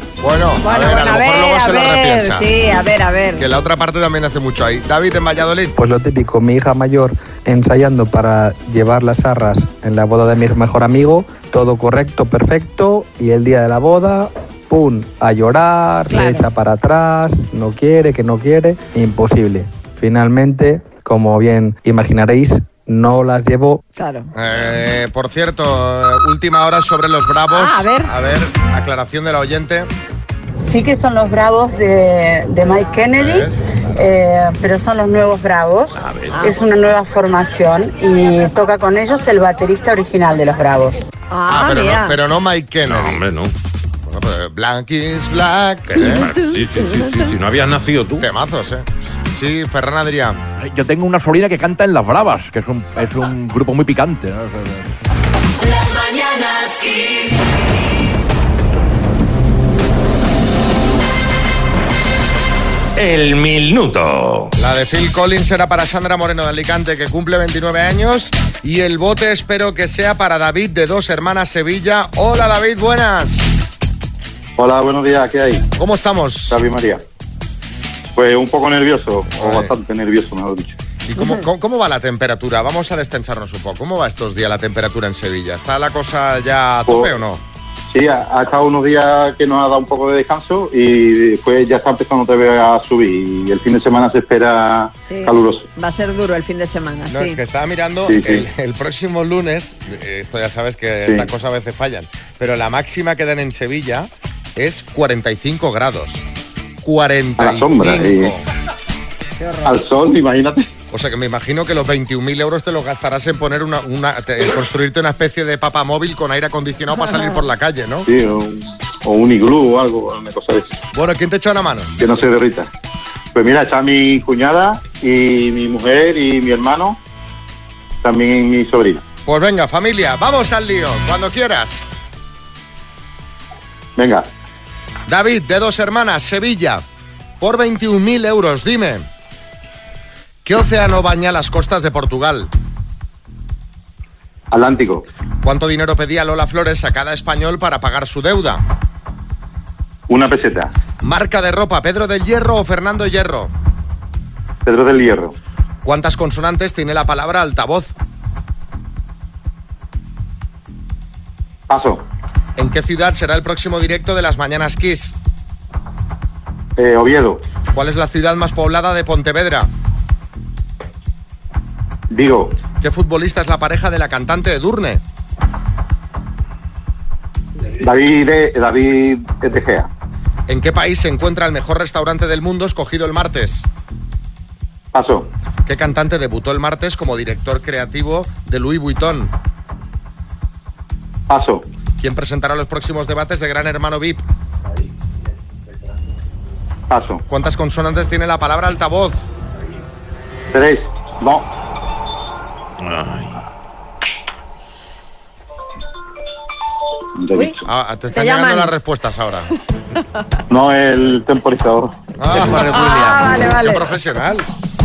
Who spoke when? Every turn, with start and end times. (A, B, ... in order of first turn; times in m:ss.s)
0:00.2-0:02.5 A
0:00.6-0:03.4 B
0:03.4-0:05.7 A
0:05.8-0:23.8 C
0:16.1-0:16.4 D
0:16.1-0:16.5 B
0:24.0-0:24.3 B
0:24.3-0:29.9 A
0:27.5-0:28.1 B
0:30.6-0:41.0 D
0:33.2-0:33.6 A
0:35.9-0:36.4 E
0:36.3-0:36.6 B
0:41.3-0:42.2 B
0:41.5-0:43.2 A
0:42.8-0:43.5 E
0:44.1-0:46.3 A
0:45.9-0:48.3 E
0:46.0-0:47.1 B
0:48.2-0:50.4 A
0:50.6-0:54.9 F
1:03.0-1:04.5 E
1:04.6-1:13.5 A
1:14.6-1:15.6 G
1:15.8-1:16.6 A
1:16.5-1:17.0 G
1:18.1-1:20.8 G
1:19.3-1:19.7 A
1:21.0-1:27.4 A
1:21.2-1:21.4 B
1:27.9-1:35.6 G
1:35.0-1:37.4 B
1:37.1-1:46.2 A
1:38.1-1:38.4 G
1:46.8-1:48.4 A
1:47.4-1:48.3 G
1:49.4-1:49.8 B
1:49.6-1:50.7 G
1:50.9-1:58.1 A
1:58.0-2:00.8 G
2:00.9-2:01.9 A
2:02.0-2:02.7 G
2:03.3-2:07.0 G
2:08.0-2:09.0 G
2:09.2-2:11.9 A
2:14.0-2:14.3 G
2:15.1-2:16.8 A
2:17.4-2:19.1 A
2:20.4-2:22.5 A
2:24.5-2:25.0 G
2:25.4-2:28.6 A
2:30.1-2:30.7 G
2:31.0-2:33.5 A
2:34.6-2:35.3 G
2:35.8-2:37.9 A
2:41.7-2:42.0 G
2:42.6-2:45.1 A
2:46.8-2:47.4 G
2:47.7-2:49.7 A
2:52.1-2:52.6 G
2:52.8-2:55.0 A
2:57.8-2:59.9 G
3:00.5-3:03.7 A
3:04.9-3:05.3 G
3:05.6-3:09.3 A
3:11.3-3:11.6 G
3:12.0-3:14.2 A
3:16.9-3:17.2 G
3:17.3-3:19.2 A
3:20.5-3:21.5 G
3:22.8-3:23.4 E
3:27.2-3:27.6 G
3:27.6-3:29.5 A
3:28.1-3:28.7 B
3:30.5-3:31.9 G
3:32.2-3:34.4 A
3:32.5-3:33.8 B